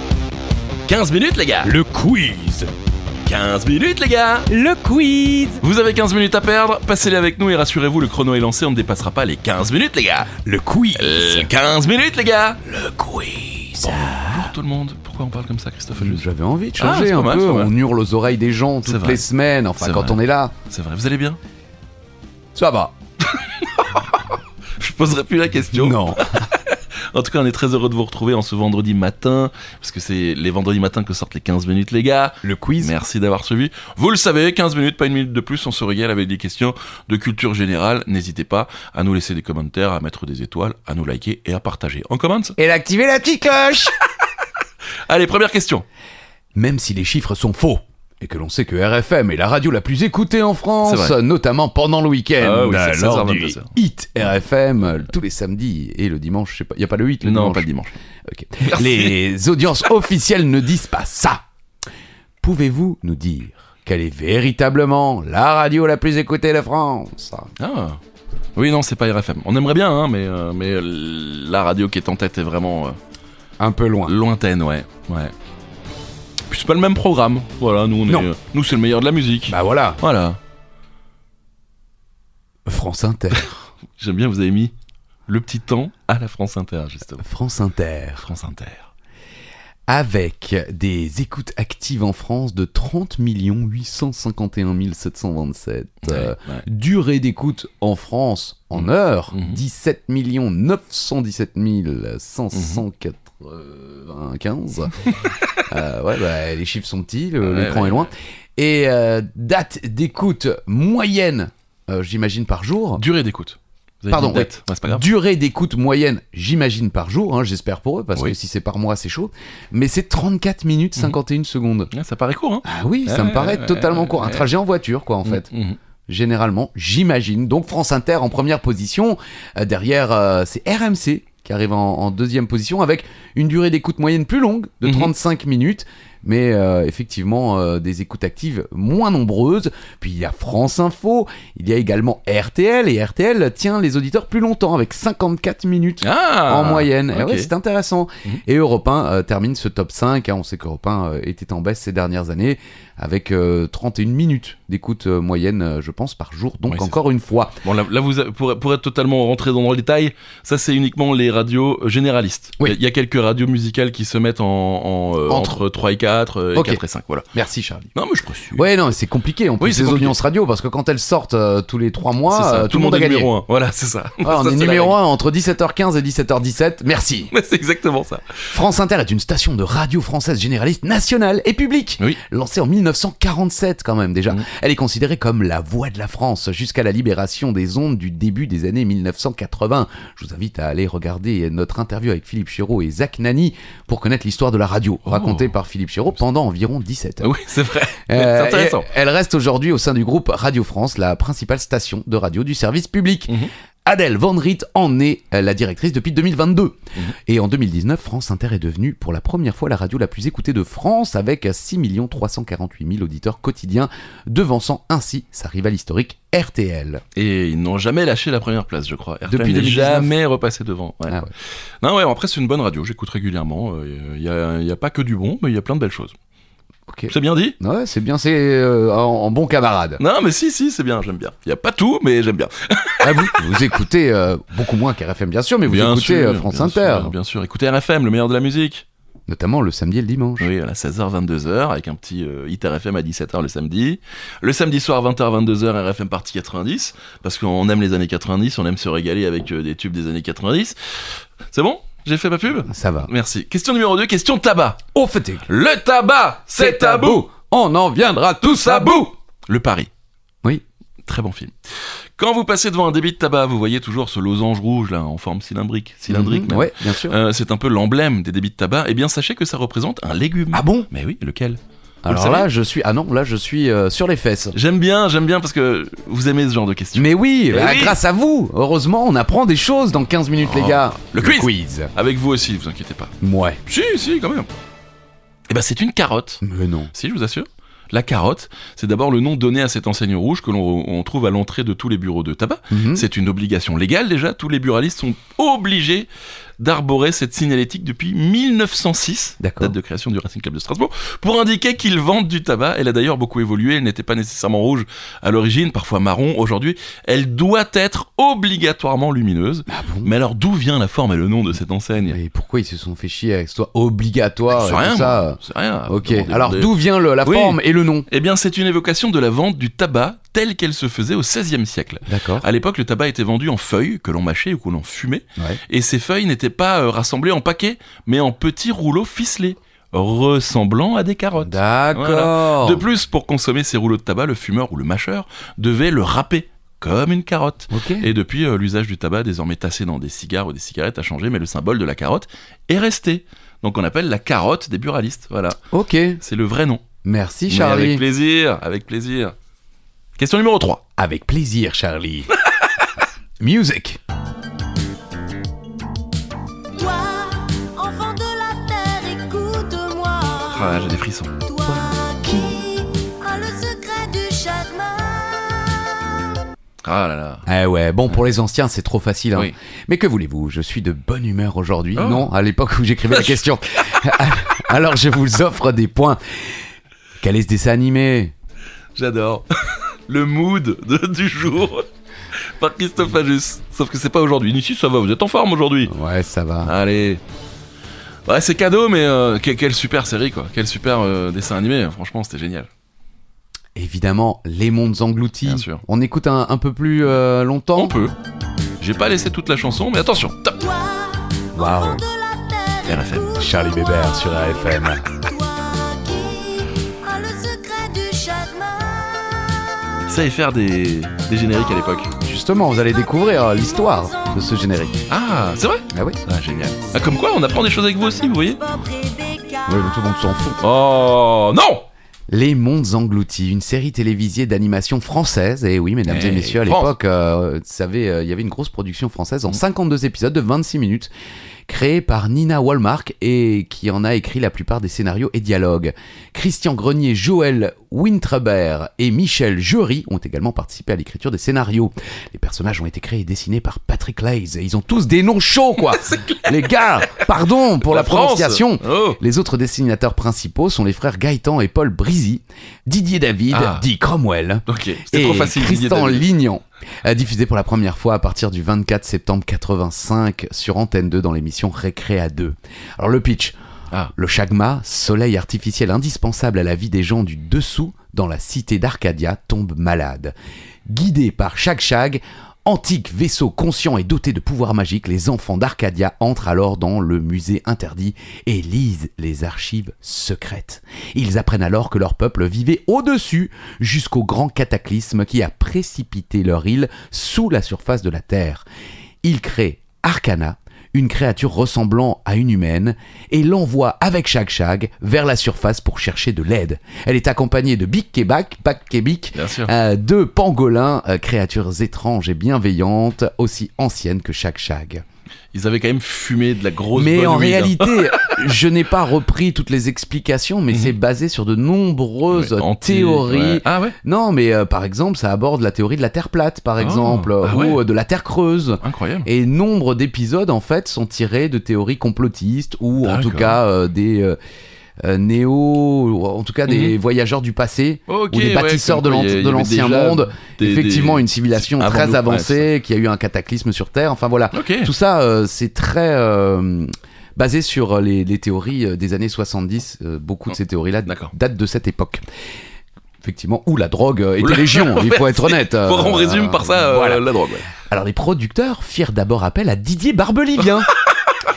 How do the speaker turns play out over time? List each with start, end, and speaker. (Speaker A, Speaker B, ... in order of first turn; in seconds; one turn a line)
Speaker A: 0.8-1.7
Speaker B: 1.6-2.7
Speaker A: 3.2-4.5
Speaker B: 4.5-5.6
Speaker A: 5.6-10.3
Speaker B: 10.4-11.5
Speaker A: 10.9-12.6
Speaker B: 12.7-14.5
Speaker A: 13.8-16.2
Speaker B: 15.9-20.5
Speaker A: 16.8-17.7
Speaker A: 18.8-19.2
Speaker A: 19.8-21.4
Speaker B: 22.5-22.9
Speaker A: 23.3-42.5
Speaker B: 25.7-26.3
Speaker B: 32.4-32.9
Speaker B: 42.6-43.9
Speaker A: 45.0-45.8
Speaker B: 46.5-57.7
Speaker A: 50.8-51.2
Speaker A: 52.4-53.7
Speaker A: 57.2-58.0
Speaker B: 58.3-61.4
Speaker A: 58.6-59.1
Speaker B: 62.4-67.5
Speaker A: 67.6-68.0
Speaker A: 68.5-73.0
Speaker B: 73.6-74.1
Speaker A: 74.0-75.3
Speaker A: 76.5-80.4
Speaker B: 79.5-80.0
Speaker B: 82.7-83.5
Speaker A: 83.3-84.7
Speaker A: 85.3-87.2
Speaker B: 87.2-88.2
Speaker A: 88.2-88.9
Speaker B: 89.9-105.1
Speaker A: 96.0-96.6
Speaker A: 98.7-99.6
Speaker A: 102.5-102.8
Speaker A: 105.2-105.6
Speaker B: 105.7-113.0
Speaker A: 107.4-108.1
Speaker A: 113.0-115.1
Speaker B: 114.1-121.9
Speaker A: 121.9-124.5
Speaker B: 122.6-125.5
Speaker A: 125.2-125.8
Speaker B: 126.1-157.6
Speaker A: 134.8-135.1
Speaker A: 146.0-147.5
Speaker A: 156.7-157.0
Speaker A: 157.6-167.3
Speaker B: 165.3-165.6
Speaker B: 166.5-166.8
Speaker B: 167.3-167.9
Speaker A: 167.9-168.7
Speaker B: 168.6-173.3
Speaker A: 169.6-170.2
Speaker A: 172.2-175.0
Speaker B: 174.2-177.3
Speaker A: 177.3-178.4
Speaker B: 178.5-197.3
Speaker A: 195.1-195.5
Speaker A: 197.2-198.9
Speaker B: 198.1-206.8
Speaker B: 207.3-217.0
Speaker A: 217.1-221.2
Speaker B: 219.3-220.1
Speaker A: 221.8-226.1
Speaker B: 226.9-230.0
Speaker A: 227.1-227.6
Speaker A: 230.0-233.5
Speaker B: 233.0-237.1
Speaker A: 235.7-238.8
Speaker B: 239.3-240.5
Speaker A: 240.4-250.8
Speaker A: 251.5-254.8
Speaker B: 252.7-253.1
Speaker B: 254.9-255.5
Speaker A: 255.5-257.3
Speaker B: 256.6-259.1
Speaker A: 258.4-259.9
Speaker A: 261.1-261.5
Speaker A: 262.2-272.5
Speaker B: 266.1-267.2
Speaker B: 270.5-270.9
Speaker B: 272.0-274.6
Speaker A: 274.5-278.0
Speaker B: 276.9-281.9
Speaker A: 280.4-283.1
Speaker B: 283.2-283.6
Speaker A: 283.6-284.5
Speaker A: 285.5-286.4
Speaker B: 286.4-286.9
Speaker A: 286.9-296.1
Speaker B: 292.7-293.1
Speaker A: 296.6-312.2
Speaker B: 299.4-299.7
Speaker B: 309.7-310.1
Speaker B: 312.1-318.1
Speaker A: 314.5-316.7
Speaker A: 317.2-345.6
Speaker B: 322.1-322.5
Speaker B: 331.4-332.8
Speaker B: 337.7-338.1
Speaker B: 345.7-346.2
Speaker A: 346.2-346.8
Speaker B: 347.0-348.0
Speaker A: 347.5-349.4
Speaker A: 350.2-350.8
Speaker B: 351.0-352.3
Speaker A: 352.5-352.9
Speaker B: 353.4-354.0
Speaker C: 356.7-360.6
Speaker A: 360.4-361.4
Speaker C: 361.4-365.7
Speaker B: 361.6-362.6
Speaker A: 366.8-367.4
Speaker B: 367.5-376.4
Speaker A: 371.9-372.3
Speaker A: 373.1-373.4
Speaker B: 377.2-378.3
Speaker A: 378.9-381.9
Speaker A: 382.5-385.9
Speaker B: 385.9-386.7
Speaker A: 386.6-387.2
Speaker A: 388.3-392.7
Speaker B: 393.7-397.9
Speaker A: 395.4-395.8
Speaker A: 397.8-398.1
Speaker A: 398.8-400.7
Speaker C: 400.6-404.2
Speaker B: 401.5-402.1
Speaker A: 402.8-403.4
Speaker B: 403.3-405.2
Speaker C: 405.2-409.5
Speaker A: 410.1-412.1
Speaker B: 412.2-415.1
Speaker C: 413.9-414.3
Speaker A: 415.1-418.7
Speaker B: 415.9-416.2
Speaker C: 418.6-419.7
Speaker B: 419.6-420.6
Speaker A: 420.6-421.9
Speaker B: 422.3-431.1
Speaker A: 426.1-426.9
Speaker B: 431.7-463.6
Speaker A: 445.8-447.3
Speaker A: 447.8-449.2
Speaker A: 453.5-453.9
Speaker A: 454.7-456.2
Speaker B: 464.1-470.3
Speaker B: 470.9-488.6
Speaker B: 489.2-505.0
Speaker A: 499.3-499.7
Speaker A: 505.5-508.4
Speaker B: 506.9-524.4
Speaker A: 512.3-514.0
Speaker A: 516.8-517.8
Speaker A: 518.8-519.3
Speaker A: 523.0-523.6
Speaker B: 525.0-542.2
Speaker A: 526.6-527.0
Speaker A: 528.1-532.7
Speaker A: 534.5-534.9
Speaker A: 541.0-541.3
Speaker B: 543.2-547.2
Speaker A: 544.4-547.7
Speaker B: 547.8-550.9
Speaker A: 550.6-551.4